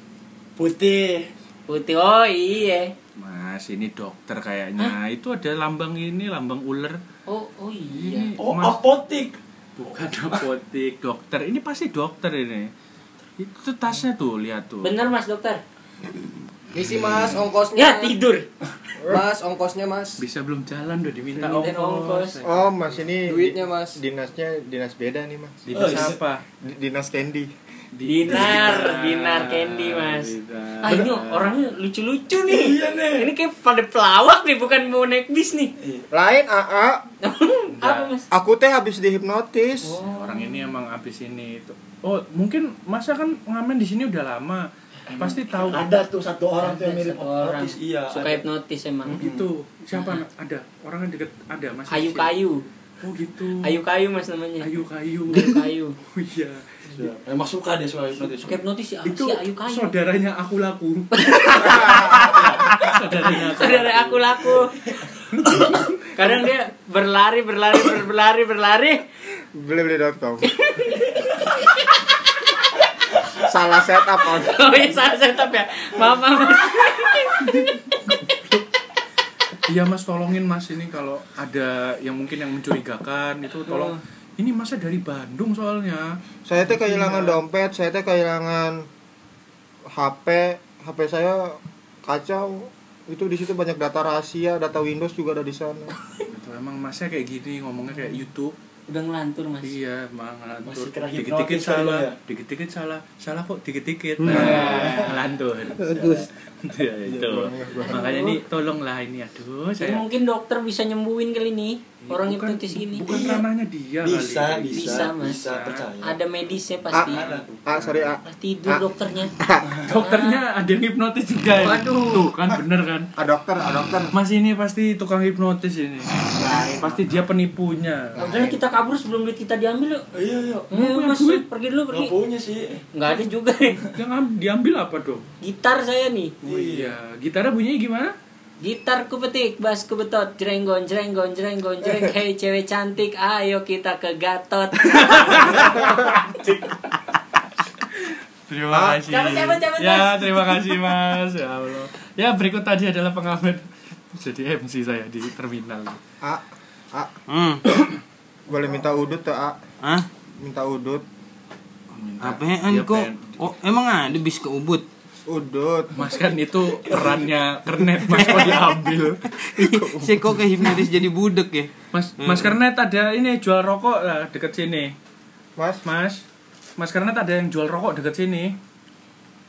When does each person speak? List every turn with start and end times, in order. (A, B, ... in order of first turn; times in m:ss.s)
0:00.6-0:01.3 A
0:01.7-0:02.9 B
0:03.2-0:07.0 C
0:07.3-0:08.3 B
0:07.9-0:08.8 C
0:08.4-0:09.4 A
0:09.8-0:12.7 C
0:13.4-0:15.0 C
0:14.8-0:15.6 B
0:16.7-0:18.2 D
0:17.1-0:17.4 C
0:17.7-0:18.5 B
0:19.0-0:20.2 D
0:20.2-0:23.0 C
0:21.3-0:22.4 B
0:22.4-0:27.5 E
0:23.2-0:24.0 D
0:25.6-0:26.4 C
0:25.7-0:26.2 A
0:27.9-0:31.5 C
0:28.0-0:35.7 B
0:32.4-0:33.3 A
0:36.1-0:37.0 E
0:37.2-0:38.2 B
0:37.8-0:38.1 C
0:38.3-0:40.0 E
0:39.8-0:40.7 B
0:40.1-0:44.6 C
0:45.1-0:48.4 A
0:45.2-0:45.8 C
0:46.6-0:49.2 B
0:49.1-0:52.3 C
0:49.1-0:49.5 A
0:51.9-0:52.6 B
0:53.0-0:53.8 C
0:53.6-0:54.7 B
0:54.6-0:56.6 C
0:55.3-0:56.0 B
0:56.9-0:58.6 A
0:58.4-0:59.9 B
0:59.0-1:04.3 C
1:01.1-1:04.7 B
1:01.6-1:02.4 E
1:05.3-1:05.9 C
1:06.1-1:09.0 B
1:09.5-1:10.5 E
1:10.5-1:12.1 B
1:13.4-1:14.7 E
1:14.2-1:17.8 B
1:17.4-1:18.6 C
1:19.7-1:26.1 C
1:26.4-1:28.9 E
1:26.6-1:27.4 C
1:29.9-1:35.9 E
1:36.3-1:38.5 C
1:38.9-1:39.7 B
1:39.6-1:50.0 C
1:40.6-1:42.2 A
1:44.2-1:44.8 F
1:44.3-1:45.1 B
1:44.4-1:45.1 A
1:47.3-1:48.0 E
1:47.8-1:48.4 B
1:49.8-1:53.1 B
1:52.0-1:55.8 C
1:52.9-1:53.4 A
1:54.0-1:56.2 A
1:54.7-1:55.4 B
1:56.0-1:57.2 B
1:56.9-1:58.9 E
1:57.0-1:57.4 A
1:57.2-1:58.0 C
1:58.2-1:59.3 B
1:59.4-1:59.7 E
1:59.6-2:03.1 C
1:59.9-2:00.4 B
2:01.5-2:02.3 B
2:03.2-2:04.1 E
2:04.1-2:08.2 C
2:06.3-2:07.0 B
2:08.2-2:10.0 B
2:08.2-2:08.5 E
2:10.1-2:10.7 A
2:10.7-2:12.1 B
2:10.7-2:11.4 C
2:11.9-2:12.8 A
2:12.9-2:13.8 B
2:13.9-2:15.2 C
2:15.4-2:16.3 B
2:16.4-2:17.0 A
2:16.4-2:18.1 C
2:18.6-2:26.2 B
2:24.9-2:26.6 C
2:28.5-2:36.0 C
2:28.7-2:29.0 E
2:29.0-2:30.6 B
2:36.2-2:37.1 E
2:37.3-2:37.7 F
2:38.5-2:39.6 E
2:39.8-2:40.1 F
2:40.4-2:41.0 E
2:41.9-2:43.4 C
2:42.2-2:44.8 F
2:45.3-2:46.1 E
2:45.9-2:50.1 C
2:48.1-2:48.7 F
2:49.3-2:52.5 F
2:51.9-2:54.9 C
2:55.6-2:55.8 E
2:55.8-2:56.2 C
2:56.8-2:58.5 C